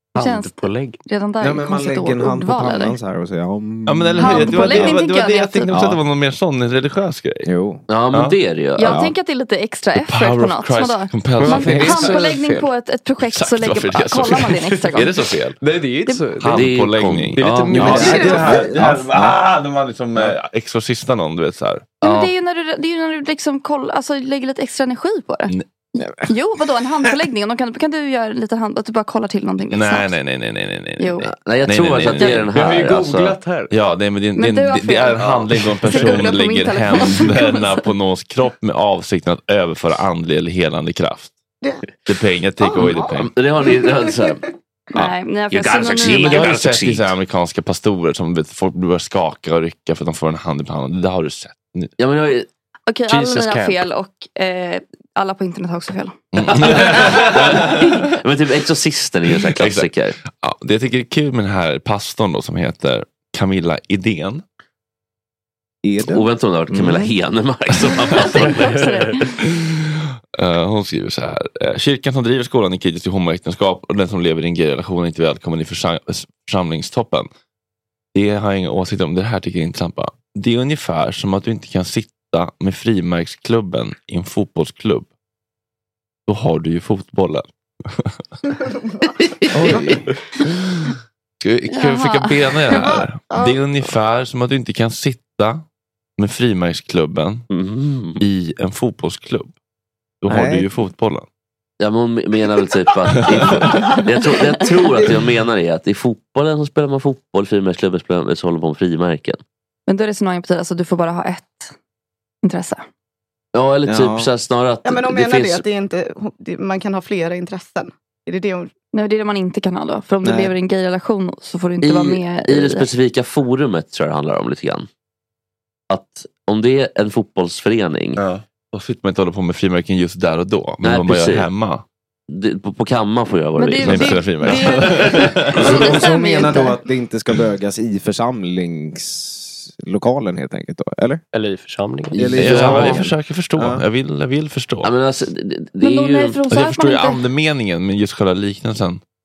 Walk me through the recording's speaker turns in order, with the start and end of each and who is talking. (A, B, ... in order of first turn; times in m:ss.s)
0:00.2-0:01.0 A
0:00.2-0:03.0 B
0:01.4-0:05.0 C
0:03.9-0:07.5 D
0:04.2-0:05.8 B
0:05.7-0:06.0 C
0:07.4-0:07.8 C
0:07.9-0:09.0 E
0:08.8-0:15.1 B
0:08.9-0:09.1 C
0:10.0-0:12.2 D
0:11.4-0:12.7 A
0:13.3-0:15.6 D
0:15.6-0:16.7 A
0:16.4-0:21.9 D
0:16.5-0:18.4 E
0:17.4-0:18.7 A
0:17.7-0:19.4 C
0:22.0-0:25.5 B
0:22.0-0:22.3 E
0:26.2-0:30.1 B
0:29.7-0:32.4 D
0:31.0-0:31.3 B
0:31.3-0:33.4 E
0:32.5-0:33.7 A
0:33.7-0:41.3 D
0:34.4-0:37.9 B
0:42.1-0:43.3 D
0:42.6-0:43.0 F
0:42.9-0:44.4 E
0:43.6-0:44.4 F
0:44.9-0:46.5 B
0:45.5-0:47.1 E
0:45.9-0:51.9 D
0:52.0-0:52.5 E
0:52.9-0:57.2 B
0:53.1-0:53.8 A
0:56.3-0:58.1 D
0:56.7-1:00.2 E
0:59.4-1:04.4 D
1:05.8-1:06.2 C
1:06.1-1:08.9 E
1:08.2-1:09.4 B
1:08.5-1:09.1 A
1:09.4-1:17.3 D
1:18.1-1:25.1 D
1:26.3-1:28.2 D
1:28.7-1:29.1 F
1:29.5-1:30.0 C
1:30.4-1:35.6 D
1:31.7-1:32.4 B
1:32.7-1:33.6 F
1:36.2-1:37.4 D
1:37.5-1:38.2 E
1:38.2-1:39.5 D
1:40.2-1:41.3 D
1:40.3-1:40.7 C
1:41.8-1:49.4 E
1:49.9-1:51.7 B
1:52.4-1:52.8 B
1:53.5-1:55.6 E
1:53.9-1:54.3 C
1:54.8-1:58.7 F
1:58.9-2:02.9 B
2:00.2-2:00.5 C
2:01.8-2:04.9 E
2:05.9-2:08.2 E
2:08.2-2:11.8 D
2:10.8-2:11.5 E
2:12.3-2:15.3 E
2:13.6-2:16.8 B
2:13.8-2:15.8 D
2:15.6-2:21.2 C
2:21.3-2:23.0 A
2:22.1-2:23.8 C
2:22.2-2:23.0 E
2:22.4-2:24.9 D
2:24.8-2:26.4 E
2:25.8-2:27.2 B
2:26.5-2:29.0 D